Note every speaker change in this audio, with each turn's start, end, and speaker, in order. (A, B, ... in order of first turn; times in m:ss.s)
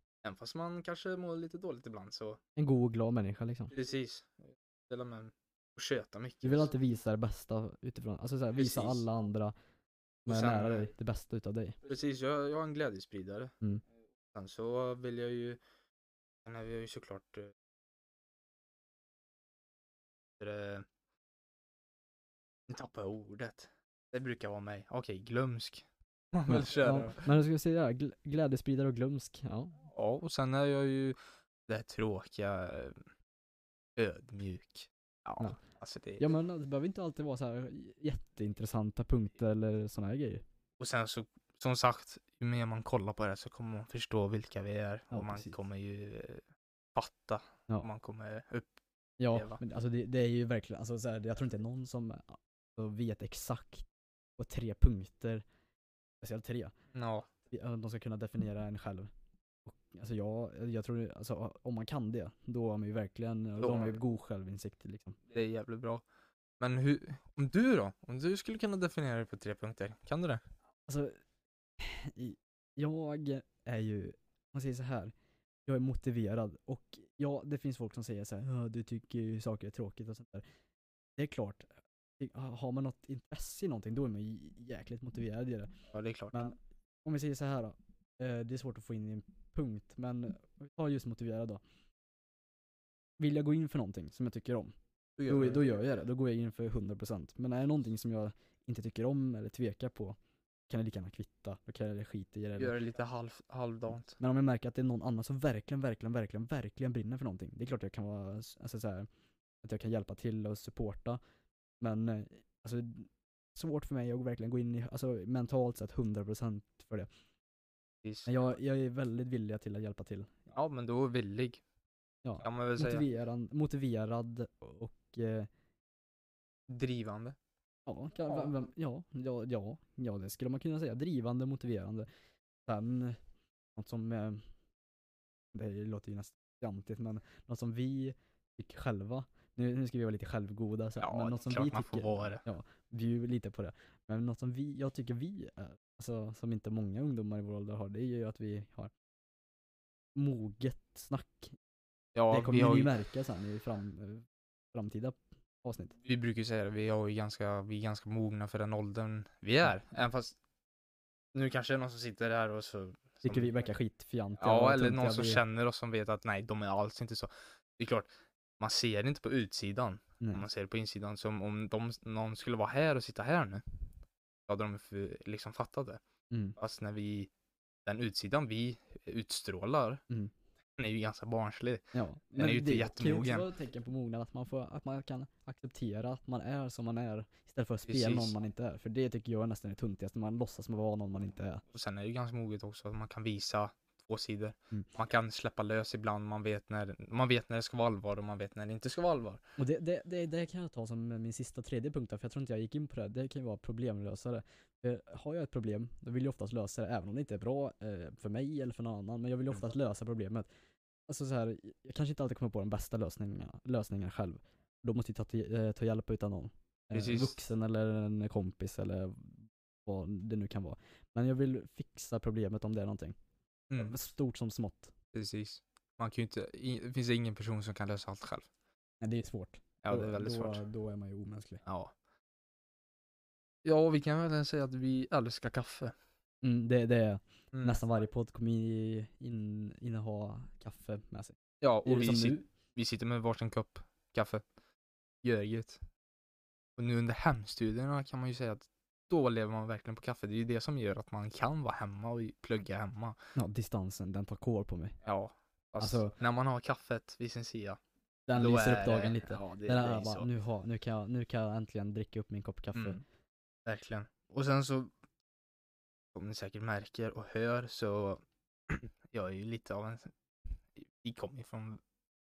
0:00.2-0:02.4 A
0:02.6-0:03.7 B
0:03.7-0:06.7 A
0:06.4-0:09.5 B
0:08.5-0:09.0 A
0:10.3-0:11.8 B
0:10.3-0:10.9 A
0:11.8-0:13.5 A
0:14.2-0:15.6 A
0:16.4-0:17.5 A
0:20.4-0:20.9 A
0:22.7-0:27.3 A
0:26.5-0:29.8 B
0:29.9-0:31.2 A
0:31.7-0:33.0 A
0:34.0-0:36.2 A
0:36.2-0:40.4 B
0:40.8-0:46.4 A
0:45.1-0:45.5 B
0:47.0-0:48.7 A
0:49.2-0:53.9 B
0:49.3-0:49.6 A
0:54.4-0:55.4 B
0:56.2-0:56.8 B
0:56.9-0:57.3 A
0:57.5-0:59.1 B
0:59.7-1:05.2 B
1:03.6-1:04.0 A
1:05.3-1:06.0 A
1:06.6-1:10.4 A
1:10.9-1:11.2 B
1:11.8-1:15.1 B
1:15.7-1:20.4 B
1:21.2-1:25.7 B
1:25.9-1:26.4 A
1:26.3-1:31.6 B
1:33.2-1:34.7 B
1:35.2-1:35.7 A
1:35.3-1:40.2 B
1:40.7-1:42.8 B
1:42.6-1:44.2 A
1:44.2-1:49.1 B
1:49.6-1:51.2 B
1:51.8-1:57.1 B
1:58.0-1:58.3 A
1:58.3-2:00.3 B
2:00.5-2:01.6 A
2:02.2-2:05.5 B
2:02.4-2:03.1 A
2:06.7-2:07.4 A
2:07.9-2:12.1 B
2:12.7-2:13.2 B
2:13.8-2:14.4 B
2:15.5-2:28.9 B
2:21.0-2:22.4 A
2:30.2-2:31.6 B
2:32.2-2:33.0 A
2:32.3-2:36.0 B
2:36.0-2:40.4 A
2:41.3-2:43.5 A
2:43.2-2:45.4 B
2:44.4-2:48.1 A
2:48.6-2:53.6 A
2:54.5-2:56.0 A
2:56.3-2:56.6 B
2:56.6-2:57.3 A
2:57.8-3:00.0 A
3:00.8-3:03.5 A
3:01.9-3:11.6 B
3:07.8-3:08.4 A
3:11.7-3:19.4 A
3:19.6-3:30.5 B
3:31.1-3:43.2 B
3:36.9-3:37.4 A
3:43.7-3:44.0 A
3:43.8-3:44.9 B
3:45.1-3:48.5 A
3:49.0-3:51.6 B
3:49.8-3:50.6 A
3:51.6-3:51.9 A
3:53.6-3:55.9 A
3:56.4-4:02.4 B
3:57.5-3:57.8 A
4:01.6-4:04.4 A
4:05.2-4:05.8 A
4:06.8-4:13.2 A
4:13.4-4:15.0 B
4:15.0-4:17.8 A
4:15.8-4:16.1 B
4:18.3-4:23.0 B
4:18.4-4:20.3 A
4:22.8-4:23.0 A
4:23.7-4:24.9 A
4:26.1-4:30.2 A
4:30.8-4:31.8 A